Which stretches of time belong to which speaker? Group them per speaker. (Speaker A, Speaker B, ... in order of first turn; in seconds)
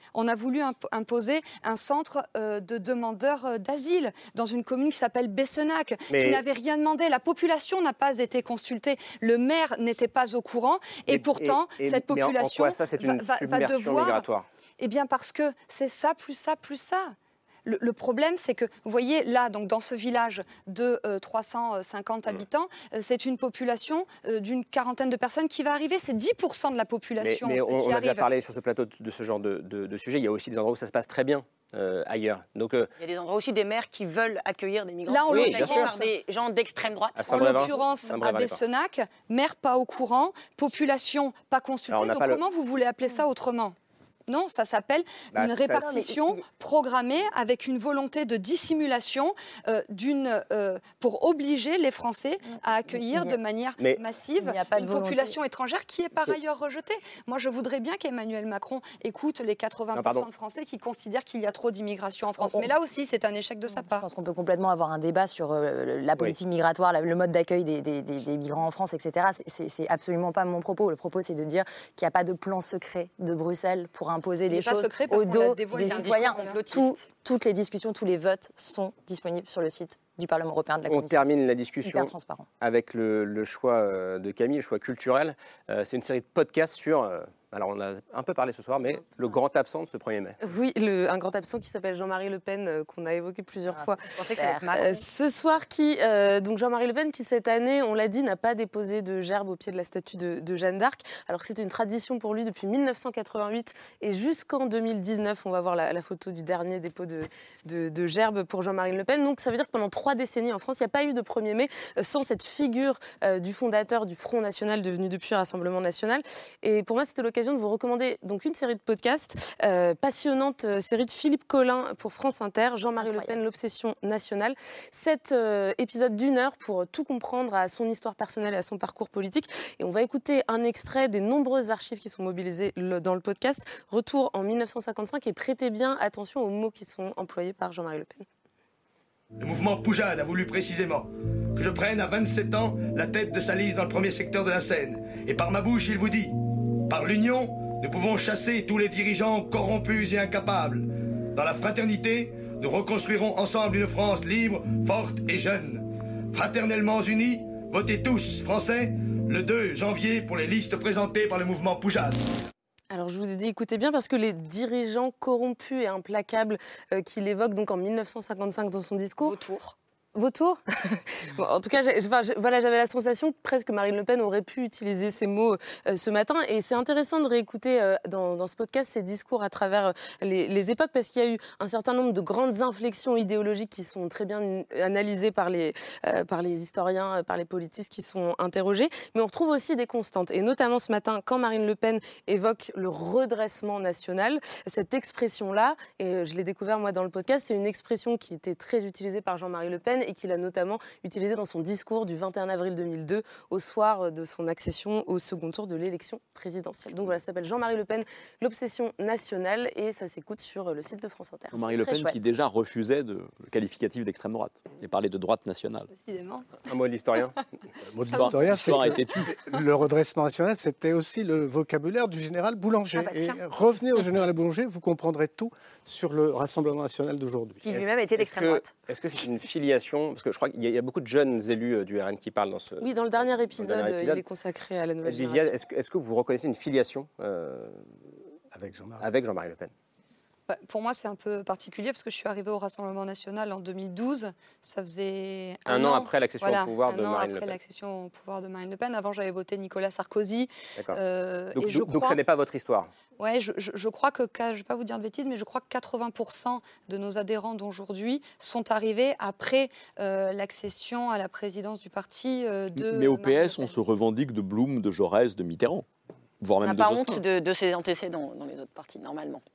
Speaker A: 0.1-14.2, 14.8-17.1, 17.6-28.3, 35.1-36.1, 37.3-43.8, 44.3-64.0, 74.5-76.6, 215.9-216.5, 240.5-252.2, 253.2-263.7
Speaker B: 6.1-6.4, 11.1-14.4, 27.2-32.9, 35.3-35.9, 37.1-38.6, 41.9-42.4, 45.3-46.0, 59.9-60.3, 80.9-90.4, 216.6-217.4, 228.2-234.2, 235.0-237.8, 239.0-239.7, 245.7-247.6, 250.8-251.0, 251.5-252.9
Speaker C: 33.0-37.8, 75.7-77.0, 94.1-95.0, 169.2-169.7, 222.9-223.4, 227.6-228.7, 266.6-269.4
Speaker D: 45.7-46.5, 52.5-53.4, 54.4-55.4, 62.4-62.7, 63.7-82.5, 93.7-94.8, 123.0-123.4, 211.7-212.2
Speaker E: 90.4-94.1, 94.8-138.2, 162.9-169.4, 170.1-211.6, 232.8-235.5
Speaker F: 139.4-162.3
Speaker G: 211.5-215.9, 218.1-219.4, 262.8-265.8, 266.4-267.2
Speaker H: 217.9-227.9, 238.5-239.1